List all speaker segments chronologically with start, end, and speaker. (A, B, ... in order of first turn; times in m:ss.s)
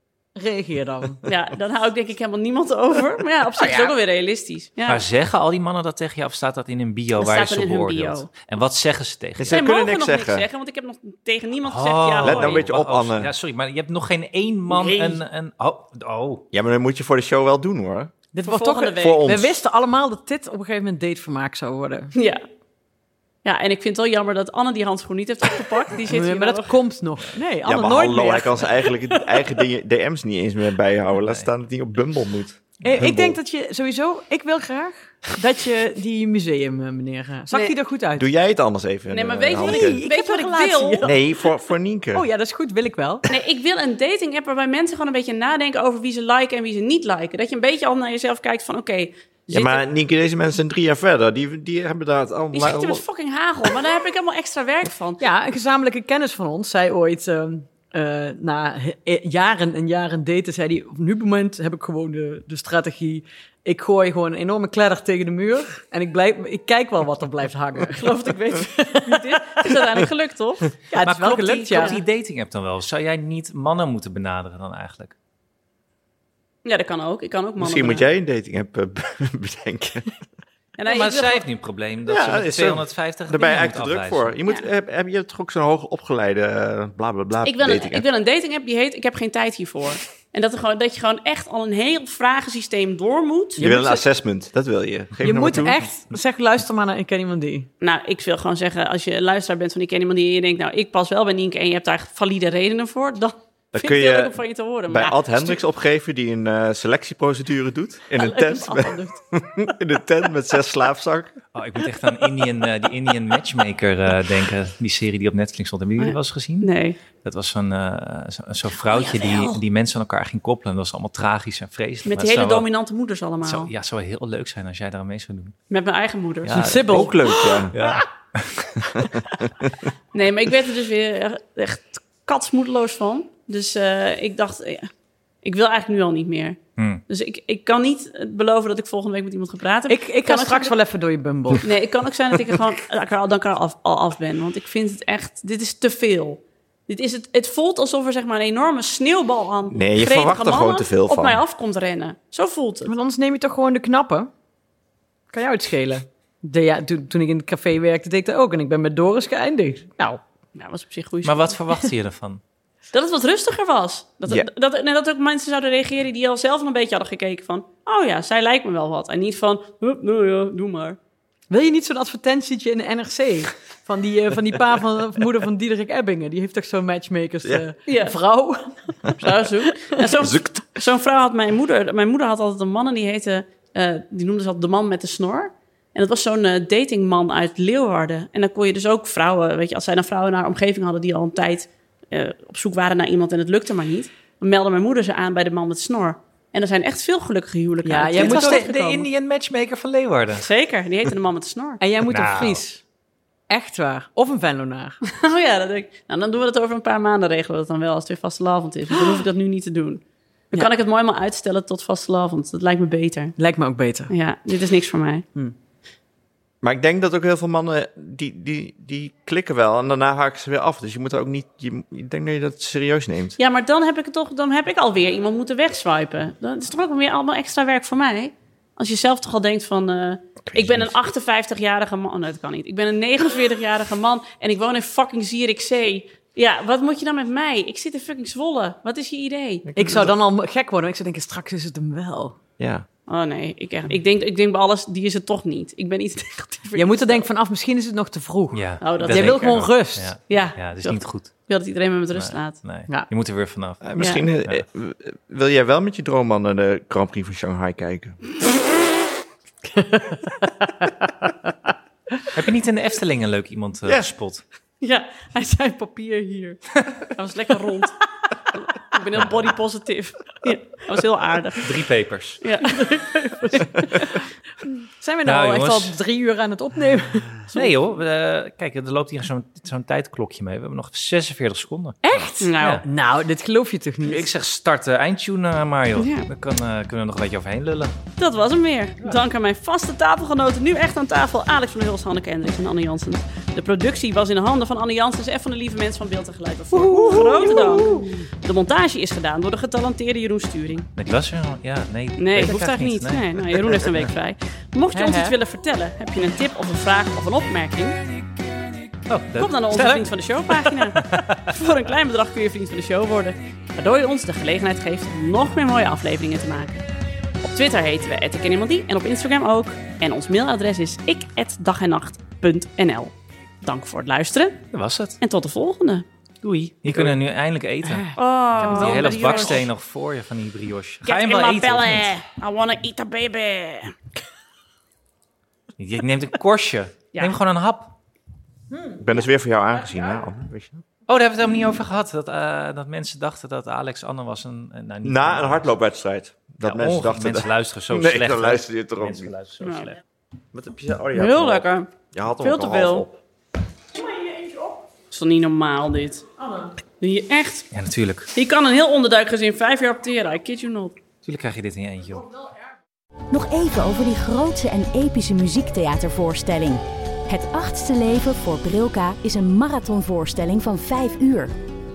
0:00.3-0:01.2 A
0:01.2-0:05.0 B
0:04.9-0:09.6 C
0:07.1-0:08.3 B
0:09.4-0:10.5 D
0:09.5-0:12.6 B
0:11.6-0:16.4 C
0:12.2-0:13.3 D
0:14.7-0:15.2 B
0:16.5-0:18.1 D
0:18.3-0:22.1 A
0:18.5-0:19.2 B
0:18.9-0:19.6 D
0:22.1-0:22.4 B
0:23.4-0:26.7 B
0:26.1-0:28.7 A
0:27.6-0:33.4 D
0:31.2-0:31.5 C
0:32.8-0:38.3 A
0:32.9-0:33.3 C
0:38.2-0:40.0 D
0:39.1-0:41.1 B
0:39.5-0:41.1 A
0:41.0-0:42.2 D
0:42.1-0:43.2 A
0:43.3-0:49.8 B
0:49.5-0:53.0 D
0:52.5-0:55.2 B
0:55.2-1:09.8 A
1:08.0-1:10.8 B
1:10.9-1:12.0 A
1:11.0-1:15.1 C
1:11.7-1:12.0 B
1:16.6-1:18.0 B
1:17.6-1:20.1 D
1:20.8-1:21.4 B
1:20.8-1:24.3 C
1:22.1-1:28.0 D
1:27.4-1:33.8 B
1:33.6-1:34.0 A
1:33.6-1:35.9 D
1:35.2-1:37.7 A
1:37.8-1:45.6 B
1:43.7-1:51.3 D
1:48.2-1:49.2 B
1:51.5-1:56.7 C
1:56.0-1:57.0 B
1:57.2-2:02.7 C
1:58.9-1:59.6 B
2:02.1-2:03.7 B
2:03.4-2:05.5 C
2:05.7-2:07.6 B
2:06.5-2:07.4 A
2:06.6-2:07.8 D
2:07.7-2:08.8 C
2:10.1-2:14.9 B
2:15.4-2:20.7 B
2:16.8-2:17.0 C
2:19.9-2:21.7 A
2:21.6-2:32.9 B
2:29.7-2:31.4 D
2:32.8-2:34.3 A
2:35.3-2:40.2 A
2:40.5-2:41.6 B
2:41.2-2:42.4 C
2:42.9-2:51.0 B
2:51.5-2:59.1 A
2:57.9-2:58.2 B
2:59.2-3:19.0 B
3:00.2-3:00.6 D
3:17.8-3:18.7 A
3:18.2-3:20.5 C
3:20.3-3:21.8 B
3:21.8-3:22.8 A
3:22.1-3:22.6 C
3:23.5-3:25.0 A
3:25.0-3:33.4 B
3:33.4-3:34.1 A
3:34.1-3:35.2 B
3:36.6-3:43.4 D
3:43.4-3:59.7 B
3:50.5-3:50.9 D
3:59.7-4:00.1 D
3:59.8-4:02.4 A
4:02.6-4:02.8 D
4:03.1-4:07.2 B
4:06.7-4:10.2 A
4:08.5-4:11.5 C
4:08.8-4:12.6 B
4:12.1-4:13.9 C
4:13.8-4:18.2 D
4:14.0-4:14.2 B
4:19.7-4:22.3 A
4:22.3-4:24.4 C
4:24.8-4:28.0 B
4:28.5-4:31.7 B
4:31.6-4:32.4 C
4:32.4-4:33.0 B
4:32.8-4:34.0 A
4:33.8-4:34.1 B
4:34.6-4:37.6 A
4:35.2-4:36.0 C
4:37.5-4:42.0 C
4:42.0-4:44.3 A
4:42.4-4:42.8 B
4:42.6-4:42.8 C
4:44.0-4:47.9 C
4:46.0-4:46.2 B
4:48.2-5:00.9 B
4:56.8-4:58.2 A
5:00.9-5:04.1 C
5:02.2-5:08.0 B
5:04.9-5:05.4 A
5:09.1-5:11.5 C
5:09.4-5:16.8 B
5:17.4-5:24.6 B
5:24.7-5:25.2 C
5:25.2-5:26.0 B
5:26.4-5:32.1 C
5:27.9-5:29.3 A
5:28.2-5:29.7 B
5:31.0-5:33.9 B
5:35.8-5:37.9 C
5:38.7-5:39.0 A
5:39.0-5:40.8 D
5:41.1-5:45.7 C
5:45.0-5:49.3 D
5:46.6-5:50.0 C
5:49.6-5:49.9 B
5:50.5-5:53.2 D
5:51.1-5:51.9 B
5:52.4-5:53.0 B
5:53.9-5:54.8 A
5:55.1-5:56.2 B
5:56.4-5:56.7 A
5:57.0-5:57.7 B
5:57.7-5:58.3 C
5:58.3-6:01.0 B
6:01.2-6:02.3 C
6:03.3-6:11.5 E